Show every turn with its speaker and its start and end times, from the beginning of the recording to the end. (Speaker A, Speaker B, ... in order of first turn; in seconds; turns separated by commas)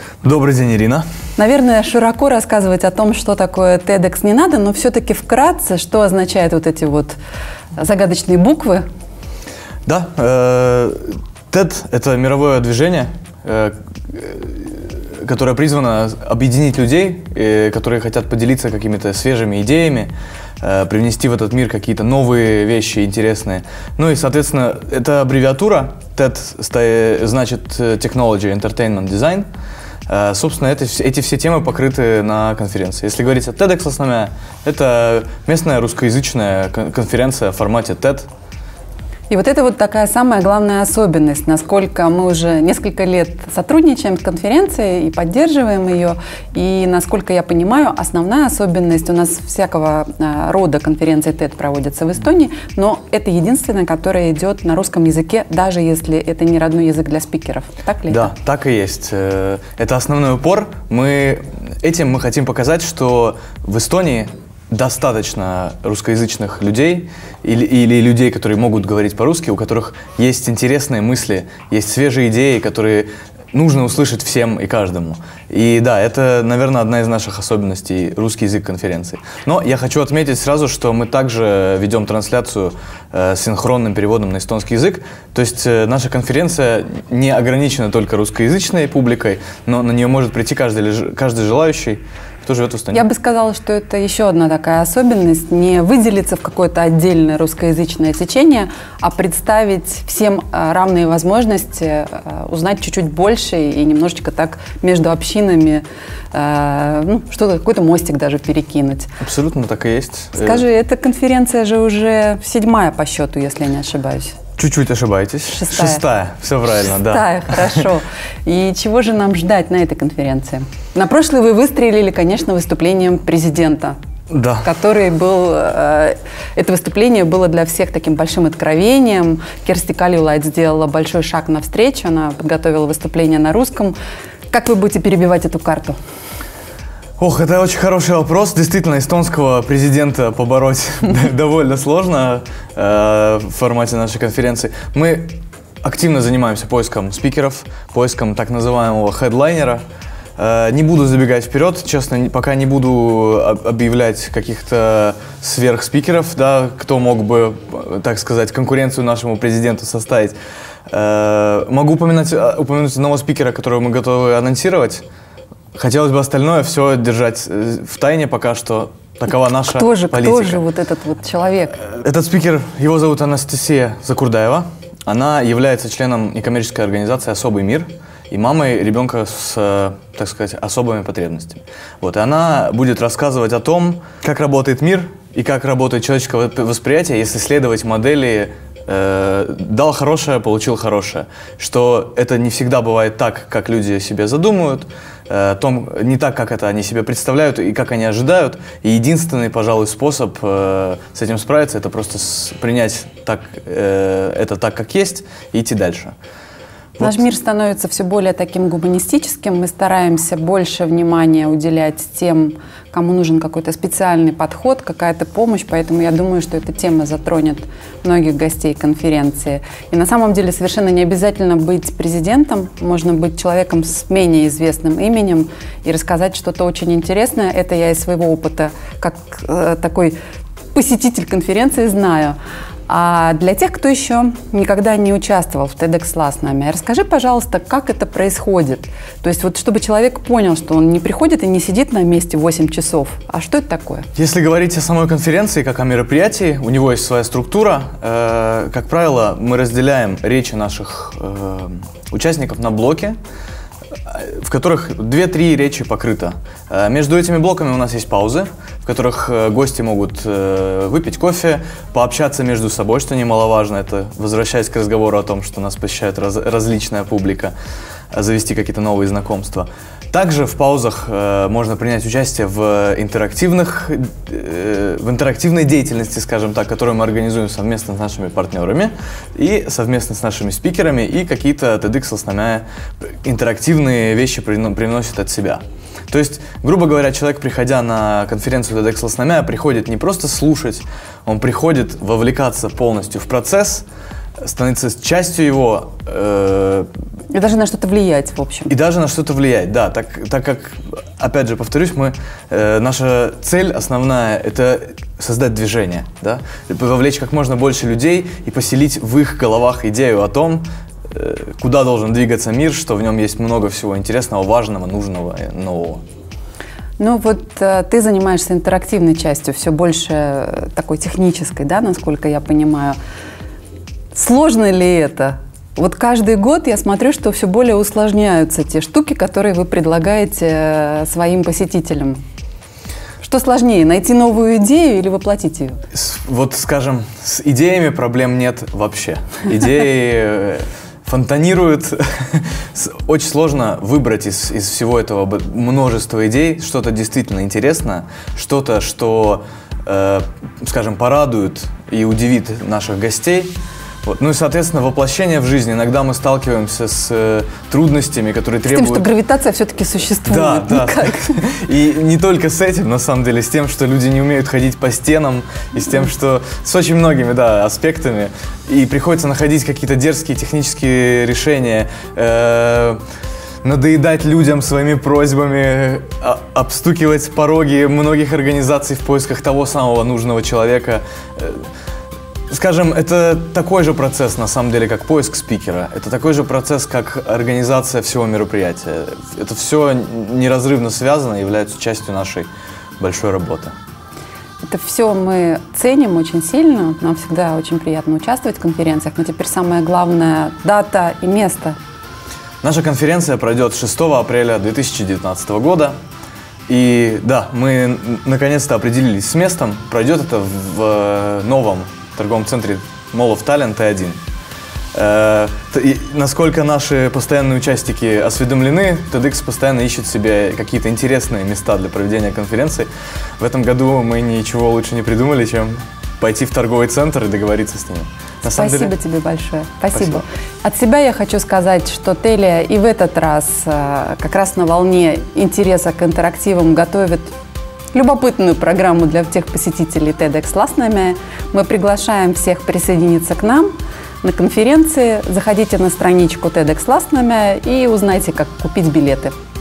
Speaker A: 0.2-1.1, Speaker B: 1.4-7.2, Speaker B: 7.8-8.8, Speaker A: 9.9-29.5, Speaker A: 30.1-38.3, Speaker B: 39.3-58.3, Speaker A: 58.1-93.0, Speaker B: 92.9-109.1, Speaker A: 109.2-110.6, Speaker B: 110.3-114.4, Speaker A: 114.6-117.8, Speaker B: 115.5-116.0, Speaker B: 117.1-124.0, Speaker A: 124.3-124.7, Speaker B: 124.6-133.9, Speaker B: 134.5-136.0, Speaker A: 137.2-149.8, Speaker A: 150.4-160.4, Speaker A: 160.9-165.0, Speaker A: 165.8-170.6, Speaker B: 169.6-171.8, Speaker A: 171.9-206.1, Speaker B: 207.0-230.2, Speaker B: 230.7-232.4, Speaker B: 232.9-244.1, Speaker A: 244.2-253.2, Speaker A: 254.1-267.5, Speaker A: 268.1-293.9, Speaker A: 294.4-296.9, Speaker B: 297.3-298.7, Speaker A: 298.7-316.0, Speaker B: 317.0-323.0, Speaker B: 324.1-332.2, Speaker B: 333.2-335.8, Speaker A: 335.9-353.5, Speaker A: 354.1-359.1, Speaker B: 358.7-361.4, Speaker A: 360.3-373.0, Speaker A: 373.6-381.7, Speaker A: 382.5-393.8, Speaker B: 394.6-401.8, Speaker A: 402.6-406.0, Speaker A: 406.7-414.2, Speaker A: 414.9-428.9, Speaker B: 428.4-437.3, Speaker A: 429.9-430.2, Speaker B: 437.9-449.4